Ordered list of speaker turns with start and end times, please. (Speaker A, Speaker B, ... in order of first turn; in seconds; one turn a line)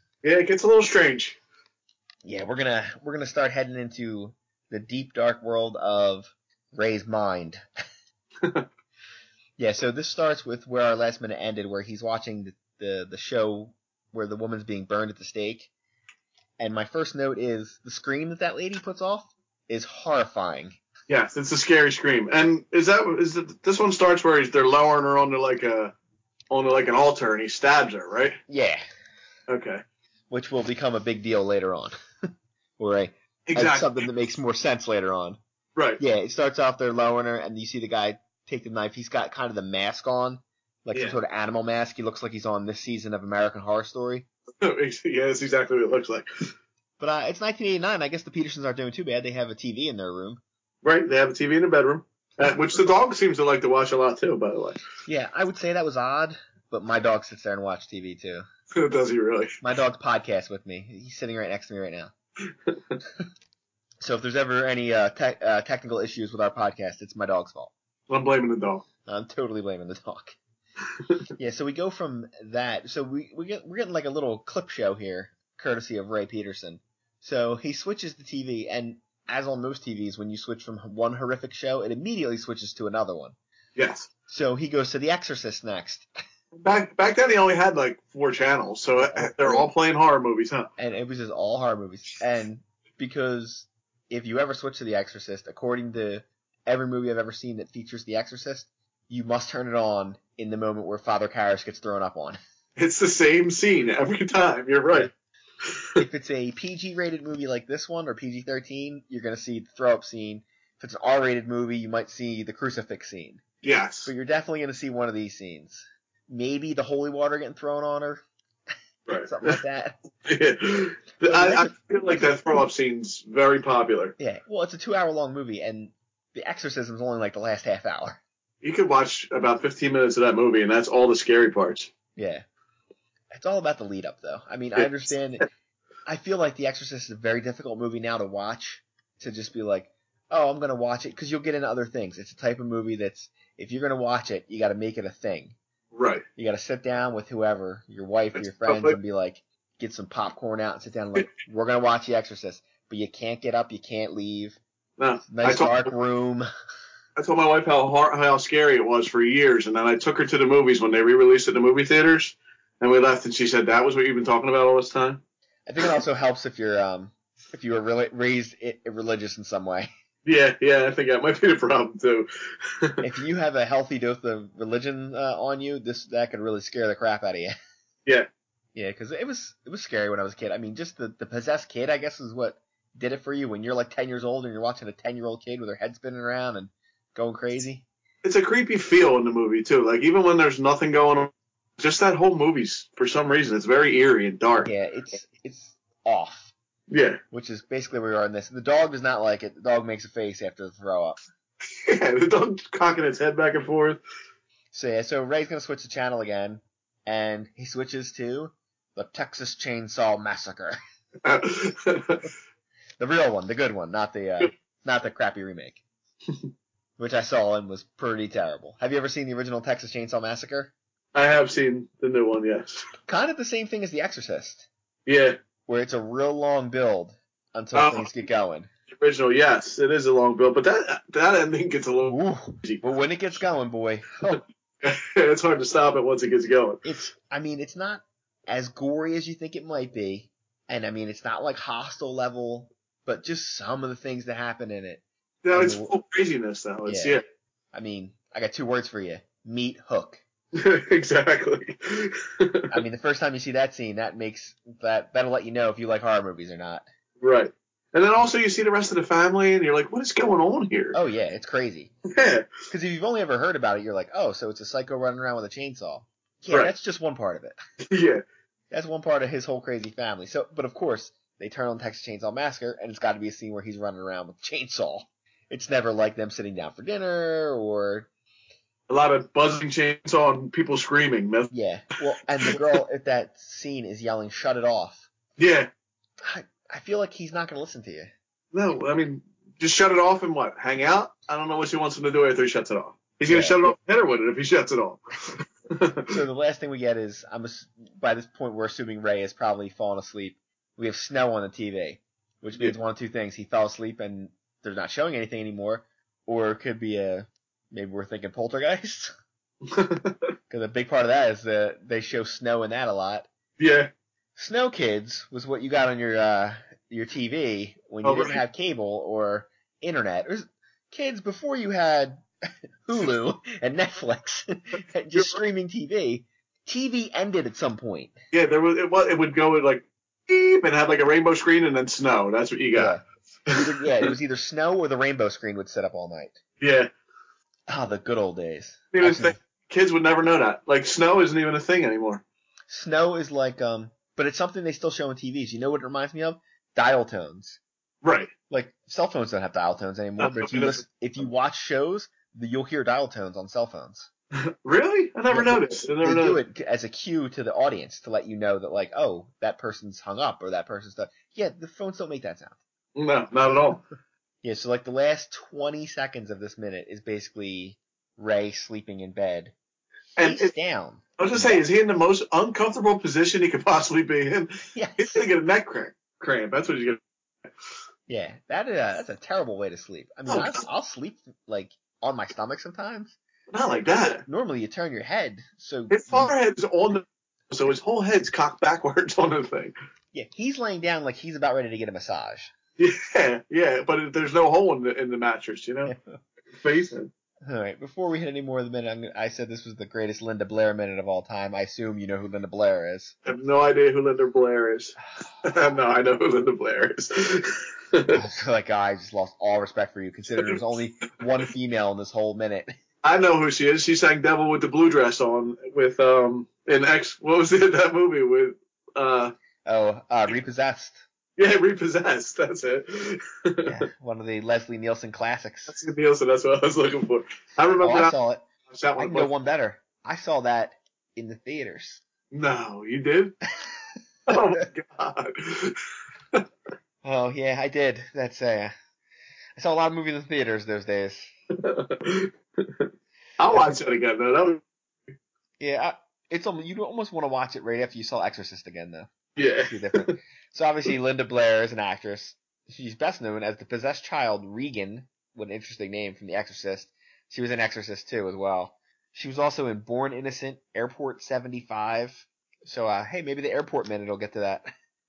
Speaker A: 0.2-1.4
Speaker B: 2.2-7.6
Speaker B: 9.6-15.7
Speaker B: 16.6-20.8
Speaker A: 21.1-25.9
Speaker A: 26.5-28.4
Speaker B: 28.5-28.8
Speaker A: 29.5-29.8
Speaker B: 30.3-31.9
Speaker B: 32.8-35.4
Speaker A: 33.5-33.9
Speaker A: 35.7-36.0
Speaker B: 36.0-44.2
Speaker A: 40.9-41.2
Speaker A: 44.6-46.3
Speaker B: 47.0-50.4
Speaker A: 50.8-54.8
Speaker B: 55.0-58.4
Speaker A: 58.8-59.5
Speaker B: 59.6-62.1
Speaker A: 62.7-63.0
Speaker B: 64.0-67.7
Speaker A: 68.1-68.8
Speaker B: 69.0-70.4
Speaker B: 71.4-83.3
Speaker A: 83.8-84.1
Speaker B: 84.3-86.1
Speaker A: 86.6-90.7
Speaker B: 89.0-89.7
Speaker B: 90.8-102.4
Speaker A: 102.8-105.1
Speaker B: 106.0-113.4
Speaker A: 113.6-114.1
Speaker B: 114.0-118.2
Speaker A: 119.1-119.6
Speaker B: 119.1-120.0
Speaker A: 120.2-124.1
Speaker B: 121.2-121.7
Speaker B: 124.2-128.2
Speaker A: 128.6-131.9
Speaker B: 132.2-132.4
Speaker B: 133.3-135.4
Speaker B: 136.1-145.6
Speaker A: 145.9-146.2
Speaker B: 146.4-154.6
Speaker A: 148.6-148.9
Speaker A: 155.0-155.9
Speaker B: 155.3-156.5
Speaker A: 157.2-165.2
Speaker B: 165.7-169.9
Speaker A: 170.2-172.3
Speaker B: 173.0-177.5
Speaker B: 178.7-187.8
Speaker A: 188.2-194.7
Speaker B: 194.6-196.5
Speaker A: 196.9-197.2
Speaker B: 197.3-201.2
Speaker A: 201.8-204.0
Speaker B: 204.7-210.8
Speaker A: 211.2-212.3
Speaker B: 213.0-215.8
Speaker B: 217.0-220.7
Speaker A: 221.1-222.8
Speaker B: 223.1-224.7
Speaker A: 225.1-225.3
Speaker B: 225.7-228.7
Speaker A: 227.7-228.1
Speaker A: 229.0-232.8
Speaker B: 232.0-234.4
Speaker A: 234.8-236.8
Speaker B: 236.8-245.9
Speaker A: 245.4-247.2
Speaker B: 246.8-247.2
Speaker B: 247.7-250.2
Speaker A: 250.6-252.7
Speaker B: 252.7-256.8
Speaker A: 257.2-261.0
Speaker B: 260.9-261.9
Speaker A: 262.1-262.5
Speaker B: 262.7-267.6
Speaker A: 267.9-268.2
Speaker B: 268.7-278.1
Speaker A: 278.9-281.5
Speaker B: 281.5-285.1
Speaker A: 285.4-285.7
Speaker B: 286.2-288.1
Speaker A: 288.5-295.0
Speaker B: 293.3-293.7
Speaker A: 295.7-296.0
Speaker B: 296.1-309.1
Speaker A: 309.7-310.2
Speaker B: 310.5-313.3
Speaker A: 313.6-313.9
Speaker B: 314.4-322.2
Speaker A: 318.0-318.4
Speaker B: 322.9-328.2
Speaker A: 328.3-333.0
Speaker B: 332.7-336.4
Speaker A: 336.6-336.9
Speaker B: 337.7-339.4
Speaker A: 338.9-342.2
Speaker B: 342.7-347.6
Speaker A: 348.0-348.3
Speaker B: 348.5-354.1
Speaker A: 350.2-350.8
Speaker A: 354.6-356.4
Speaker B: 355.3-362.6
Speaker A: 362.9-363.8
Speaker B: 364.4-369.5
Speaker A: 370.2-370.5
Speaker B: 370.2-371.6
Speaker A: 371.2-377.0
Speaker B: 374.7-375.2
Speaker B: 378.1-383.2
Speaker A: 380.3-380.6
Speaker A: 383.5-384.2
Speaker B: 384.2-386.3
Speaker A: 385.9-389.7
Speaker B: 390.1-392.5
Speaker A: 392.8-395.9
Speaker B: 395.9-396.2
Speaker A: 396.5-397.1
Speaker B: 397.4-403.2
Speaker A: 403.2-408.1
Speaker B: 408.1-412.7
Speaker A: 413.0-419.3
Speaker B: 419.6-421.0
Speaker A: 421.4-423.6
Speaker B: 423.6-425.8
Speaker A: 425.7-428.1
Speaker B: 427.8-428.4
Speaker A: 428.7-429.3
Speaker B: 429.0-432.0
Speaker A: 432.3-433.3
Speaker A: 434.3-435.8
Speaker B: 437.0-438.7
Speaker B: 439.6-441.3
Speaker A: 441.6-444.6
Speaker B: 445.6-464.7
Speaker A: 449.4-450.1